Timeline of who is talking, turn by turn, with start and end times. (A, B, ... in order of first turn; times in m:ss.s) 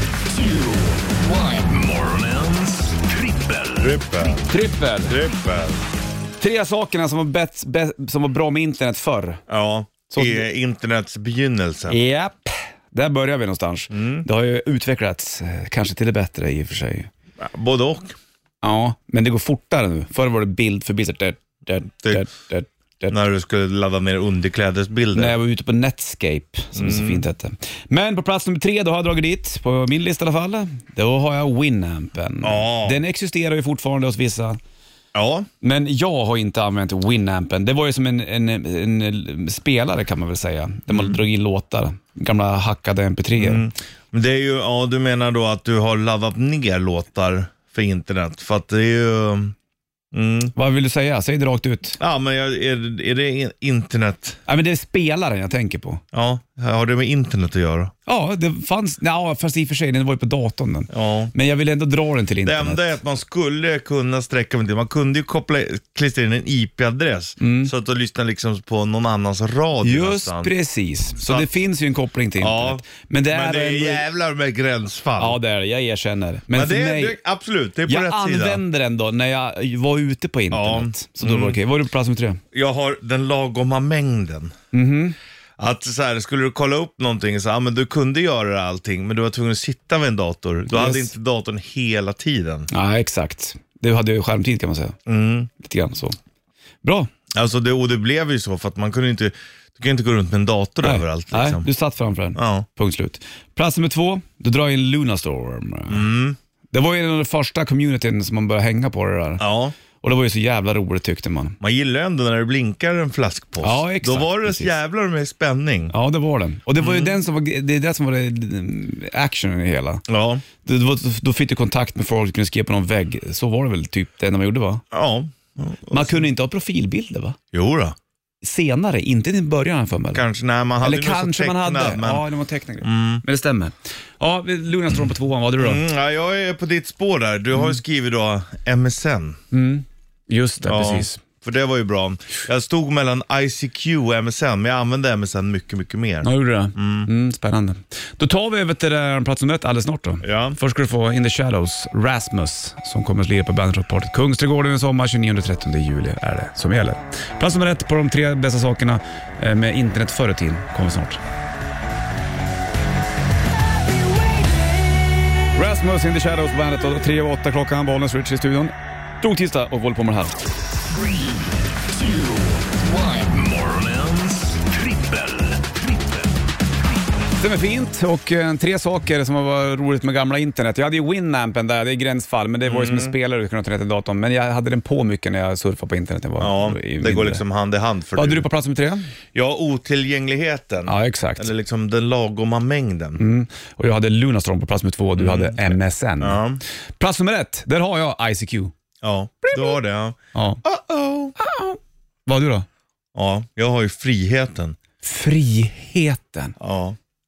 0:00.3-0:04.0 A
0:03.8-0:04.5 B
0:04.5-0:05.2 C
0:05.1-0:05.8 B
0:06.4-0:09.4 C
0:09.5-0:12.0 B
0:10.1-0:10.4 C
0:11.9-0:17.1 C
0:13.9-0:14.2 B
0:17.4-0:18.2 B
0:18.6-0:23.2 C
0:23.1-0:25.3 B
0:25.1-0:34.6 C
0:26.7-0:27.2 B
0:32.4-0:33.0 B
0:35.1-0:35.5 B
0:35.6-0:43.6 C
0:40.9-0:41.2 B
0:43.4-0:49.5 B
0:50.1-0:50.5 B
0:50.5-0:52.0 C
0:52.0-0:54.4 B
0:54.5-0:56.0 C
0:56.1-0:57.9 B
0:58.0-1:02.9 C
1:00.9-1:01.3 B
1:02.4-1:10.5 B
1:07.4-1:07.7 C
1:09.8-1:14.0 C
1:11.2-1:11.5 B
1:12.4-1:15.4 B
1:15.2-1:17.2 C
1:16.5-1:18.6 B
1:17.9-1:22.4 C
1:20.5-1:21.6 B
1:22.5-1:24.5 B
1:24.7-1:25.2 C
1:25.6-1:32.7 B
1:30.7-1:31.1 C
1:32.7-1:35.0 C
1:35.1-1:35.5 B
1:35.6-1:36.2 C
1:36.8-1:37.1 C
1:37.3-1:41.6 B
1:40.8-1:46.0 C
1:42.4-1:42.6 B
1:45.9-1:46.4 B
1:46.7-1:49.4 C
1:49.4-1:49.7 B
1:50.0-1:51.6 C
1:51.6-1:55.9 B
1:53.6-1:54.7 C
1:55.9-2:00.0 C
1:56.8-1:57.1 B
2:00.1-2:00.4 B
2:00.6-2:04.8 C
2:04.9-2:06.2 B
2:05.9-2:07.4 C
2:07.5-2:08.0 B
2:08.4-2:10.2 C
2:10.1-2:12.2 B
2:10.8-2:15.8 C
2:12.8-2:13.2 B
2:15.6-2:19.4 B
2:19.5-2:21.2 C
2:20.6-2:27.1 B
2:26.2-2:41.2 C
2:30.2-2:30.6 B
2:45.5-2:50.4 C
2:51.0-2:51.3 A
2:52.0-2:56.3 A
2:57.4-3:07.4 C
3:02.6-3:03.1 B
3:06.4-3:08.4 B
3:08.1-3:09.1 C
3:09.3-3:13.2 B
3:10.8-3:11.5 C
3:13.2-3:16.4 C
3:15.2-3:16.6 B
3:17.0-3:18.7 C
3:19.0-3:21.3 B
3:19.4-3:19.8 C
3:20.3-3:20.6 C
3:21.4-3:22.6 C
3:23.1-3:24.8 B
3:25.0-3:26.6 C
3:26.6-3:27.0 B